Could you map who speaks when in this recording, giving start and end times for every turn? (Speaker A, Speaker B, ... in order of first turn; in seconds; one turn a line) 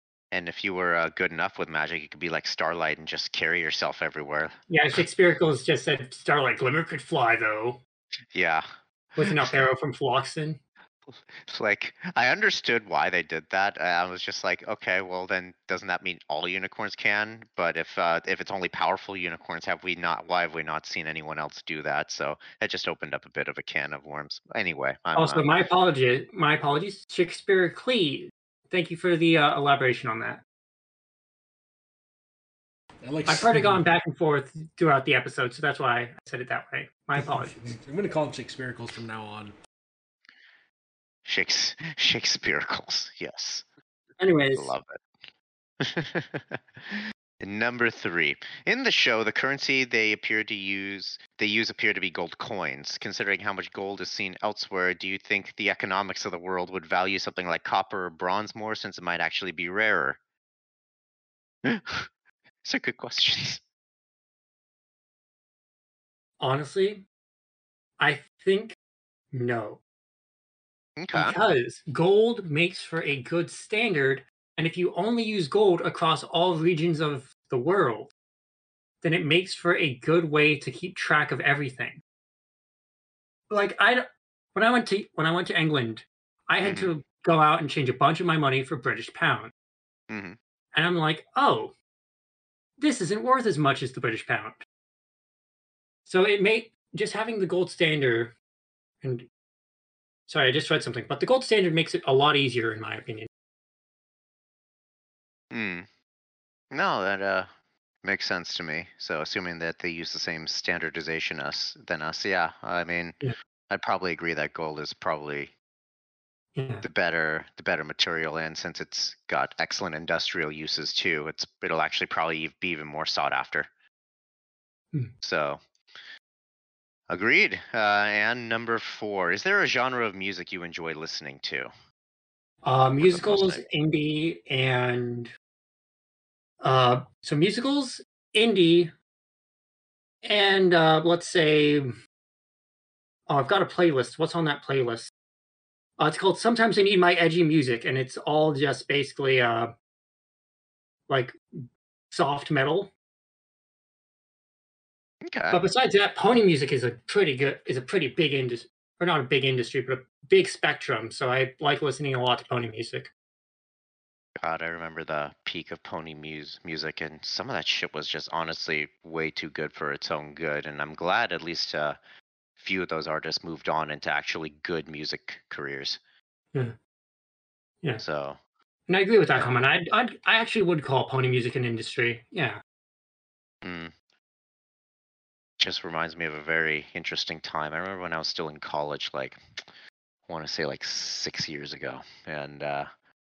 Speaker A: 0.3-4.5
Speaker B: 4.7-7.8
Speaker A: 8.3-8.7
Speaker B: 9.2-10.6
Speaker A: 9.2-9.5
Speaker A: 11.3-25.5
Speaker B: 25.1-30.4
Speaker C: 33.0-33.8
Speaker B: 33.3-37.6
Speaker C: 37.2-39.5
Speaker A: 41.2-43.6
Speaker B: 44.2-44.7
Speaker A: 44.5-45.0
Speaker A: 45.8-60.2
Speaker A: 61.6-62.1
Speaker A: 62.6-63.6
Speaker B: 66.4-67.0
Speaker B: 68.0-68.7
Speaker B: 69.3-69.8
Speaker A: 71.0-71.3
Speaker B: 71.1-78.1
Speaker B: 79.0-82.0
Speaker B: 83.5-89.5
Speaker A: 86.6-86.9
Speaker A: 90.1-90.4
Speaker B: 90.7-91.7
Speaker B: 92.8-94.6
Speaker B: 96.0-98.3
Speaker B: 100.3-103.3
Speaker A: 105.5-105.8
Speaker A: 106.7-107.5
Speaker A: 108.0-113.2
Speaker A: 113.7-115.5
Speaker B: 116.5-116.8
Speaker A: 116.8-123.7
Speaker A: 125.2-125.6
Speaker A: 127.1-131.7
Speaker B: 132.6-135.3
Speaker A: 133.0-133.6
Speaker B: 136.6-138.9
Speaker B: 140.2-141.9
Speaker B: 143.3-145.1
Speaker B: 146.0-149.7
Speaker B: 151.1-152.9
Speaker A: 155.2-155.6
Speaker B: 155.5-163.1
Speaker A: 164.4-172.0
Speaker A: 172.6-176.0
Speaker A: 178.0-178.4
Speaker B: 178.9-182.6
Speaker A: 183.6-183.9
Speaker A: 185.6-189.4
Speaker A: 190.3-192.9